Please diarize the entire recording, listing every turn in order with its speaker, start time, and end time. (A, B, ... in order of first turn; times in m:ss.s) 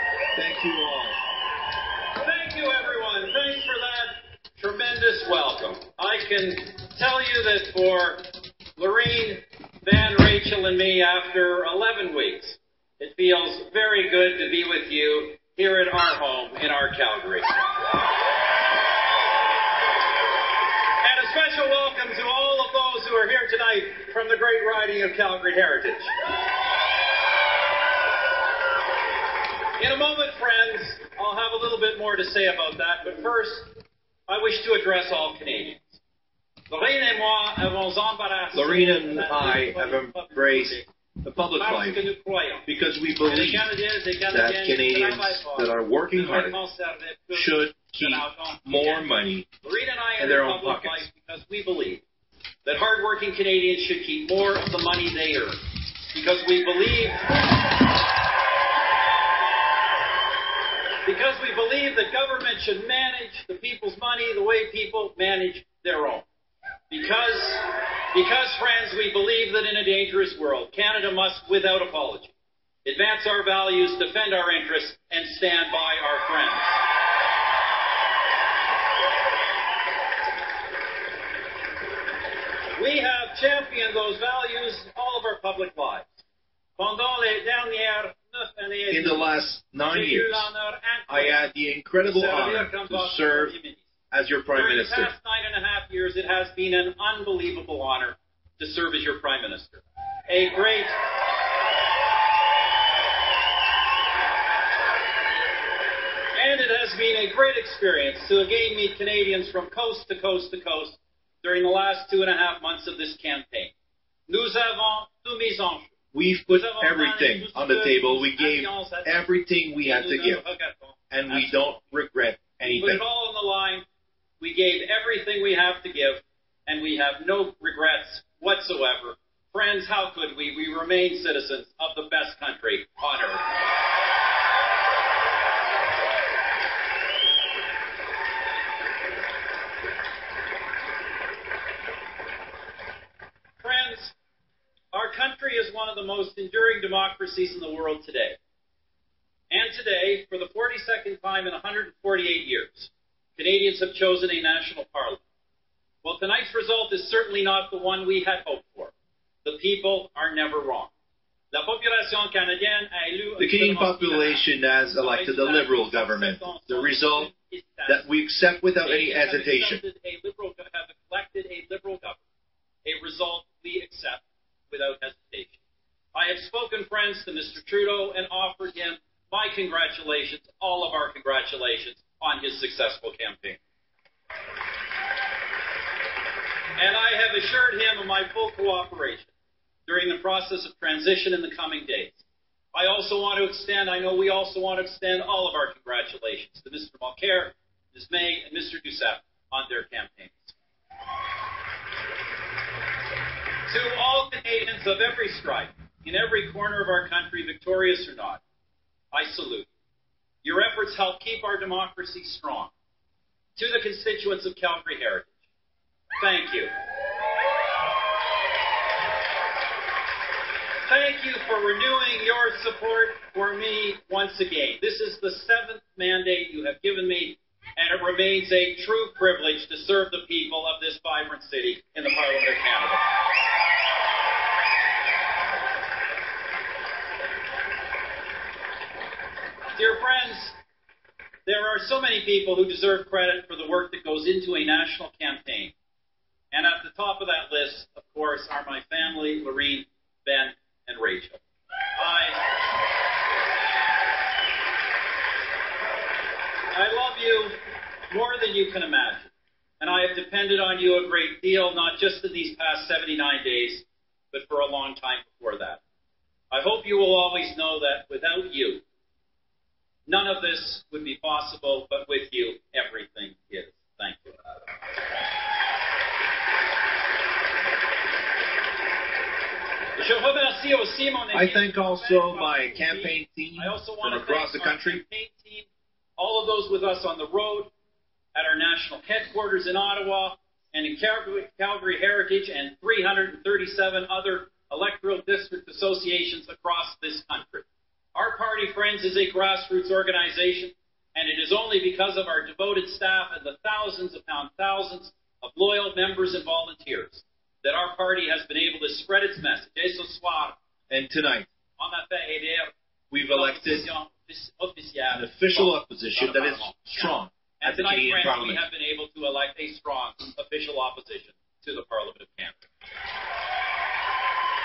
0:00.3-0:01.2 A
0:02.2-0:17.6 B
0:21.0-0:26.1 B
0:29.8-0:33.7 B
0:34.3-0:36.0 B
0:36.7-0:40.9 B
0:38.5-0:42.0 A
0:41.6-0:42.7 B
0:42.6-0:43.7 A
0:43.2-0:49.1 B
0:44.3-0:46.6 A
0:47.3-0:49.5 A
0:49.6-0:52.0 B
0:50.2-0:51.0 A
0:52.6-0:57.3 B
1:01.0-1:06.3 B
1:06.9-1:12.3 B
1:12.8-1:16.8 B
1:22.7-1:26.2 B
1:26.8-1:29.3 B
1:28.9-1:30.5 A
1:29.9-1:31.4 B
1:31.1-1:33.5 A
1:32.0-1:33.8 B
1:34.1-1:35.1 A
1:34.5-1:40.9 B
1:46.3-1:53.7 B
1:54.3-1:55.9 B
1:56.1-2:00.4 A
1:56.5-1:59.2 B
1:59.8-2:01.9 B
2:01.1-2:03.0 A
2:02.7-2:03.8 B
2:04.4-2:13.4 B
2:23.6-2:24.1 B
2:24.9-2:28.4 B
2:29.5-2:35.2 B
2:36.0-2:38.9 B
2:39.4-2:40.9 B
2:41.5-2:44.5 B
2:43.4-2:47.3 A
2:45.0-2:48.0 B
2:47.9-2:49.8 A
2:48.8-2:52.2 B
2:52.8-2:55.6 B
2:56.1-3:03.6 B
3:06.8-3:09.3 B
3:09.8-3:12.2 B
3:12.7-3:20.5 B
3:23.6-3:28.4 B
3:29.1-3:29.7 B
3:30.4-3:32.7 B
3:33.6-3:35.3 B
3:36.2-3:36.7 B
3:40.8-3:53.0 B
3:59.7-4:00.6 B
4:01.4-4:05.7 B
4:06.5-4:11.4 B
4:12.0-4:12.4 B
4:16.7-4:17.6 B
4:18.1-4:25.8 B
4:26.5-4:28.8 B
4:30.0-4:34.4 B
4:40.0-4:47.7 B
4:41.3-4:45.0 A
4:48.3-5:10.6 B
5:10.9-5:11.5 A
5:11.8-5:12.7 B
5:13.1-5:13.9 A
5:13.3-5:22.6 B
5:15.1-5:18.6 A